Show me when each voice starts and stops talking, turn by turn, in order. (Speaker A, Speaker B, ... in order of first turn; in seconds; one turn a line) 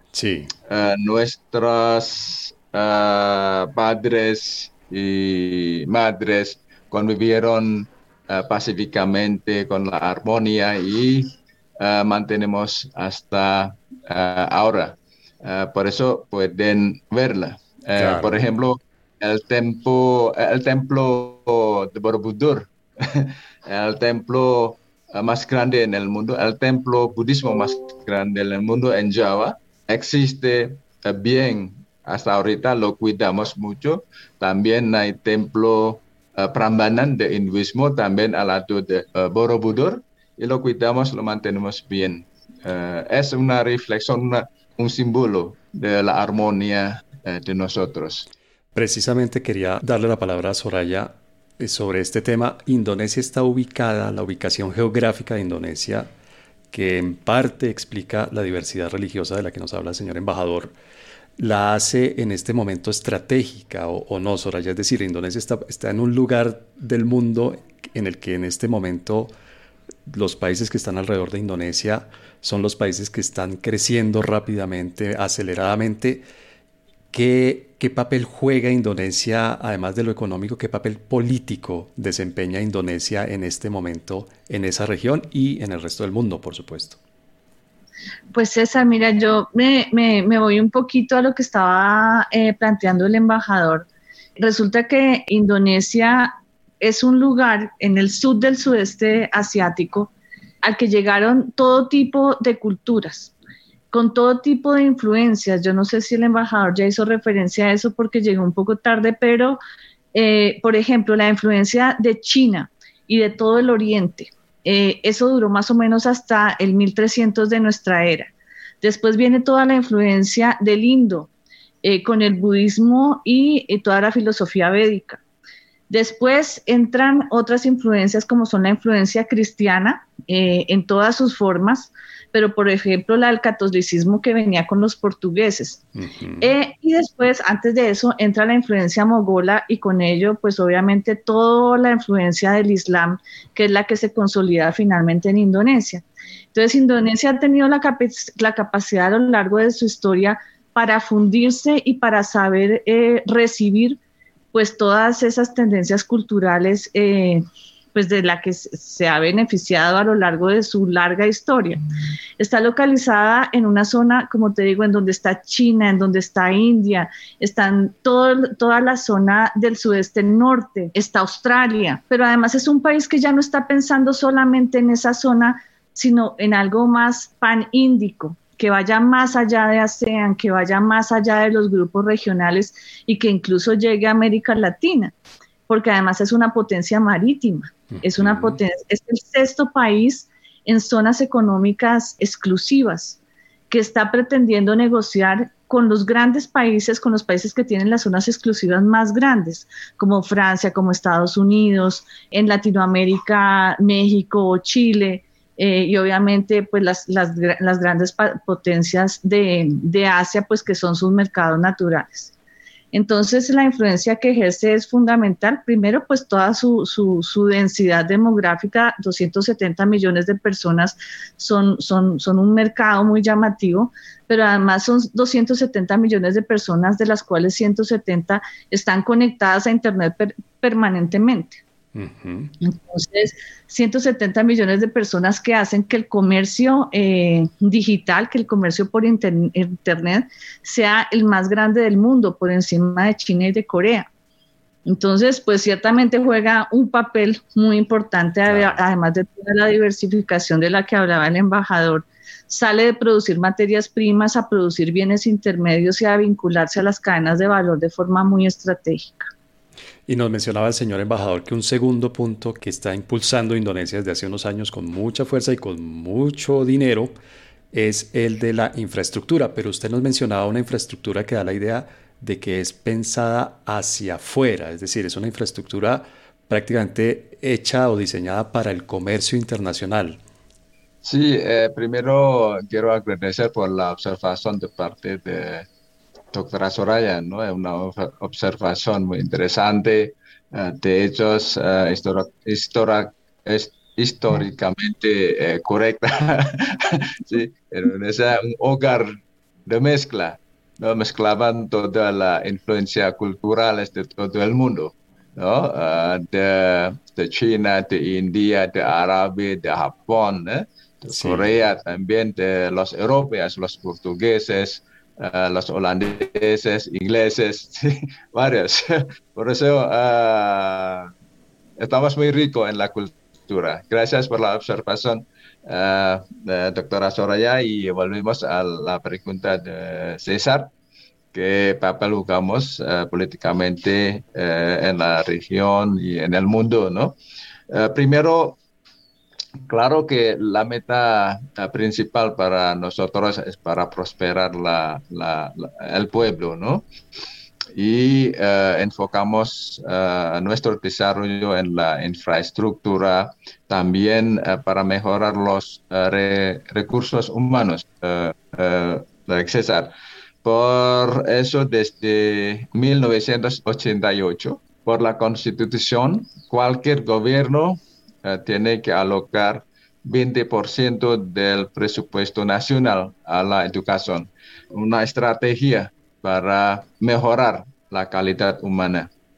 Speaker A: 0.1-0.5
Speaker B: 0.7-48.3
Speaker A: 18.0-18.3
Speaker A: 48.8-56.1
Speaker A: 56.7-60.7
Speaker A: 61.4-69.3
Speaker A: 70.1-76.2
Speaker A: 77.1-87.0
Speaker C: 88.3-93.9
Speaker C: 94.4-100.1
Speaker C: 100.6-103.3
Speaker C: 103.9-109.6
Speaker C: 110.1-121.3
Speaker C: 121.8-125.2
Speaker C: 125.9-135.8
Speaker A: 136.0-136.5
Speaker C: 136.4-154.0
Speaker C: 154.5-157.4
Speaker C: 157.9-161.8
Speaker C: 162.4-185.1
Speaker C: 185.7-193.2
Speaker A: 187.9-188.6
Speaker C: 193.7-212.3
Speaker C: 212.9-231.6
Speaker A: 231.9-232.5
Speaker C: 232.6-244.1
Speaker C: 244.9-259.3
Speaker A: 248.5-248.8
Speaker A: 260.1-267.1
Speaker A: 267.7-280.2
Speaker B: 281.0-285.7
Speaker B: 286.3-299.1
Speaker B: 299.7-321.1
Speaker A: 311.1-311.5
Speaker B: 321.8-330.7
Speaker B: 331.3-337.2
Speaker B: 337.7-338.6
Speaker B: 339.7-346.9
Speaker B: 347.8-379.1